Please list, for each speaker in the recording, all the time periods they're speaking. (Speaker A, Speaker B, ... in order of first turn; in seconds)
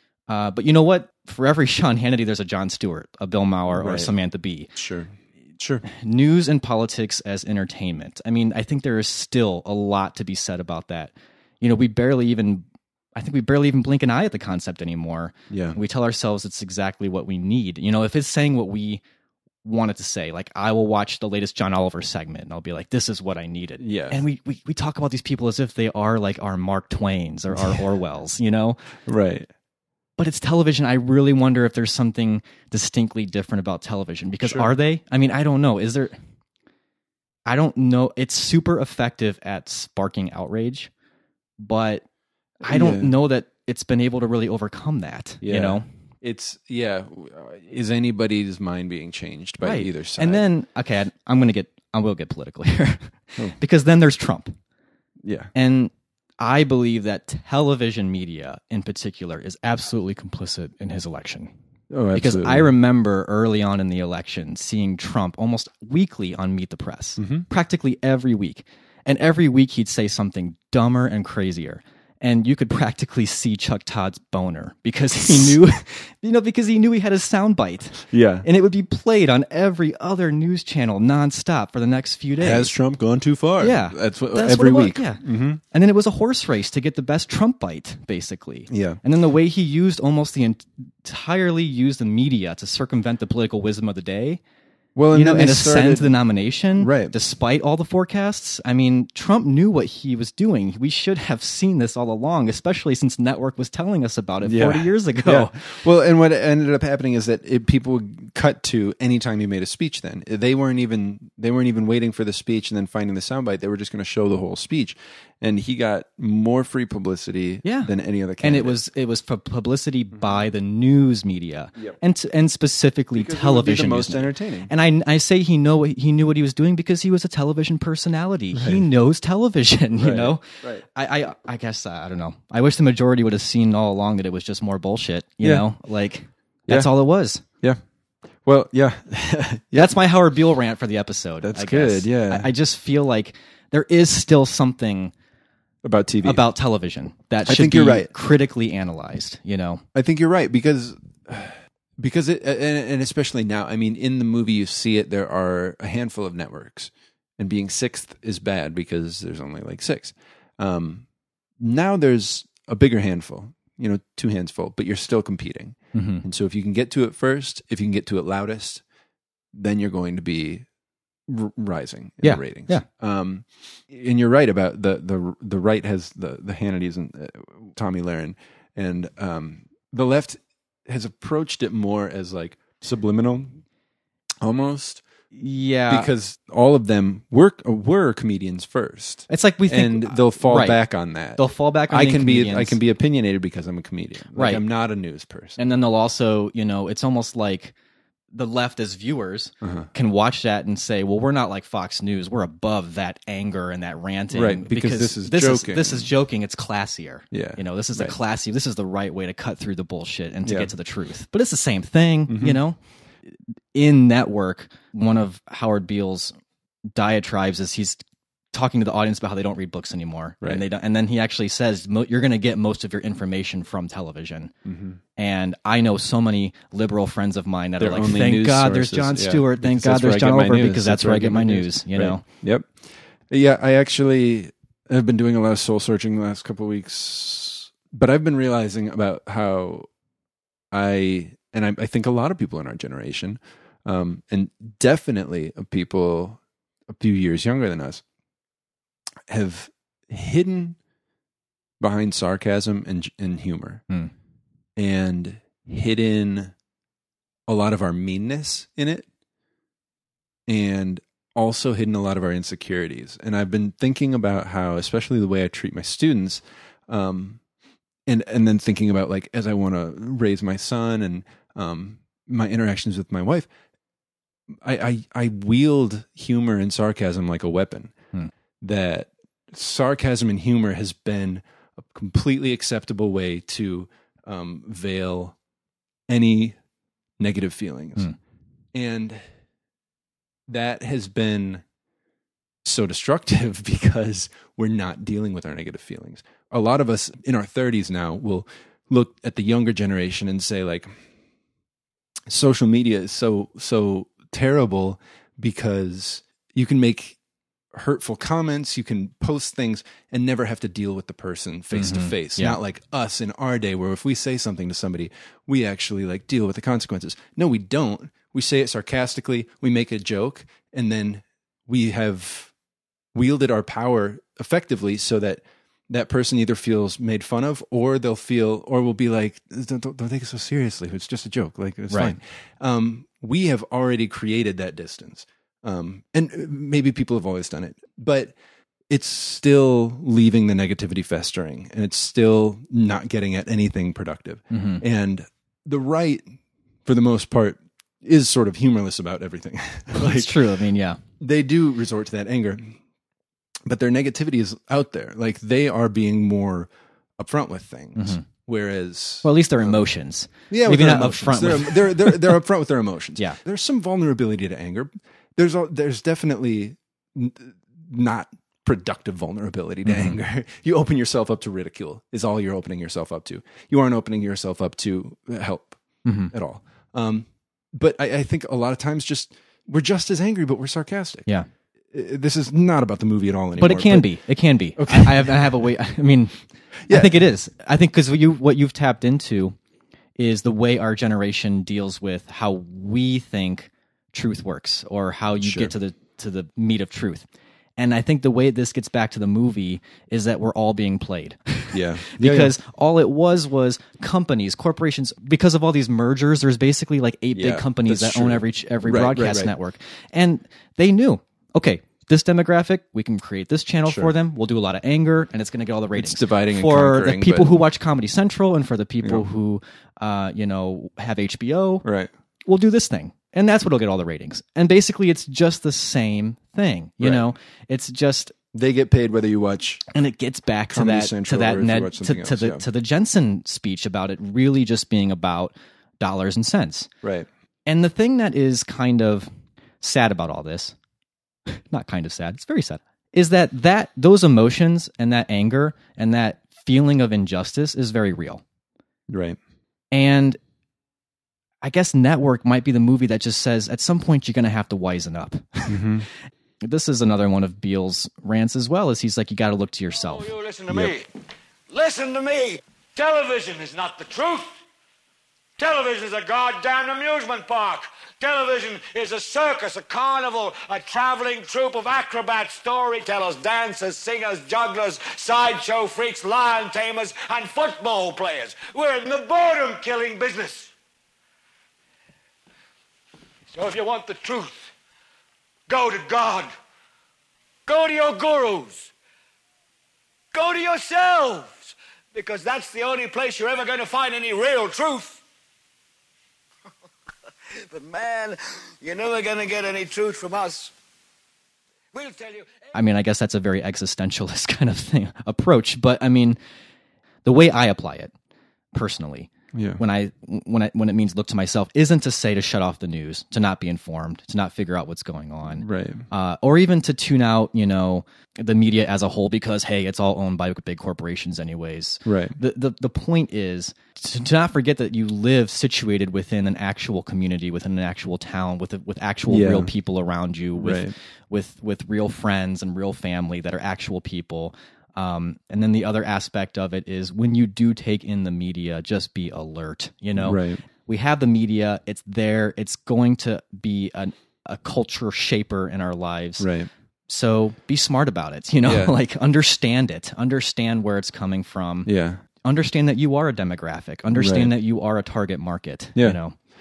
Speaker A: 0.3-4.7, 5.8-19.0, 19.6-28.8, 30.2-36.2, 37.5-40.9, 41.6-42.0, 42.6-45.9, 49.6-54.6, 55.5-61.5, 62.1-82.7, 83.6-94.4, 95.1-105.8, 117.6-137.4, 139.7-145.1, 146.2-149.8, 165.9-166.2, 172.2-172.8, 185.3-186.1, 189.3-190.8, 191.3-192.8, 194.3-194.6, 195.6-197.7, 198.3-216.3, 216.9-224.5, 225.2-232.2, 311.7-312.6, 331.9-332.2, 344.5-344.8, 349.9-351.0, 357.9-358.2, 359.2-362.4, 369.8-370.2, 376.0-376.3, 383.6-386.4, 386.9-389.6, 390.2-397.2, 397.8-421.8, 422.5-428.3, 429.9-436.9, 437.6-439.3, 439.8-440.8, 441.5-448.4, 449.9-450.4, 451.6-455.9, 456.6-460.3, 502.7-506.4, 507.2-508.1, 508.7-546.5, 547.1-551.9, 552.4-556.3
Speaker B: 3.7-4.1, 4.7-5.8, 15.5-15.8, 23.8-24.2, 27.5-27.8, 29.1-29.5, 34.4-34.7, 42.6-43.2, 45.4-50.5, 55.2-55.5, 61.9-62.7, 67.2-67.5, 75.2-75.6, 78.1-78.5, 82.3-85.6, 88.7-89.0, 95.0-96.2, 96.8-97.2, 104.4-118.8, 120.1-120.4, 123.1-124.7, 128.5-128.8, 130.0-130.8, 138.4-139.9, 141.4-142.5, 145.8-146.4, 147.4-148.1, 149.9-161.1, 161.6-168.8, 169.5-170.7, 171.3-183.6, 184.4-185.1, 185.9-195.6, 199.6-199.9, 204.3-206.1, 207.3-208.1, 210.4-210.7, 212.3-212.6, 224.6-225.0, 227.8-239.9, 240.7-246.4, 246.9-248.0, 249.3-250.8, 251.8-253.8, 254.8-256.5, 257.5-259.1, 260.5-267.4, 268.1-273.5, 274.5-277.9, 278.6-285.4, 286.1-286.6, 287.2-288.1, 288.7-289.2, 290.5-291.6, 292.6-301.0, 302.3-307.2, 307.7-322.5, 323.1-338.4, 338.9-350.4, 351.2-352.8, 353.6-359.8, 360.5-381.3, 381.9-384.1, 384.8-385.7, 386.9-387.2, 395.4-395.7, 401.7-402.5, 407.3-409.5, 413.8-414.1, 415.9-417.6, 421.8-422.1, 427.0-427.3, 428.5-429.8, 430.7-432.6, 437.0-437.3, 449.1-449.4, 455.7-456.1, 460.7-460.9, 509.5-509.8, 515.5-516.0, 522.0-522.4, 529.3-529.7, 530.6-530.9, 540.1-540.6, 546.4-546.7, 548.6-548.9, 551.8-552.2, 554.1-554.5
Speaker C: 460.1-461.1, 461.7-464.5, 465.6-480.7, 483.5-484.6, 485.7-486.5, 487.7-488.9, 490.3-495.2, 497.7-500.7, 501.9-502.4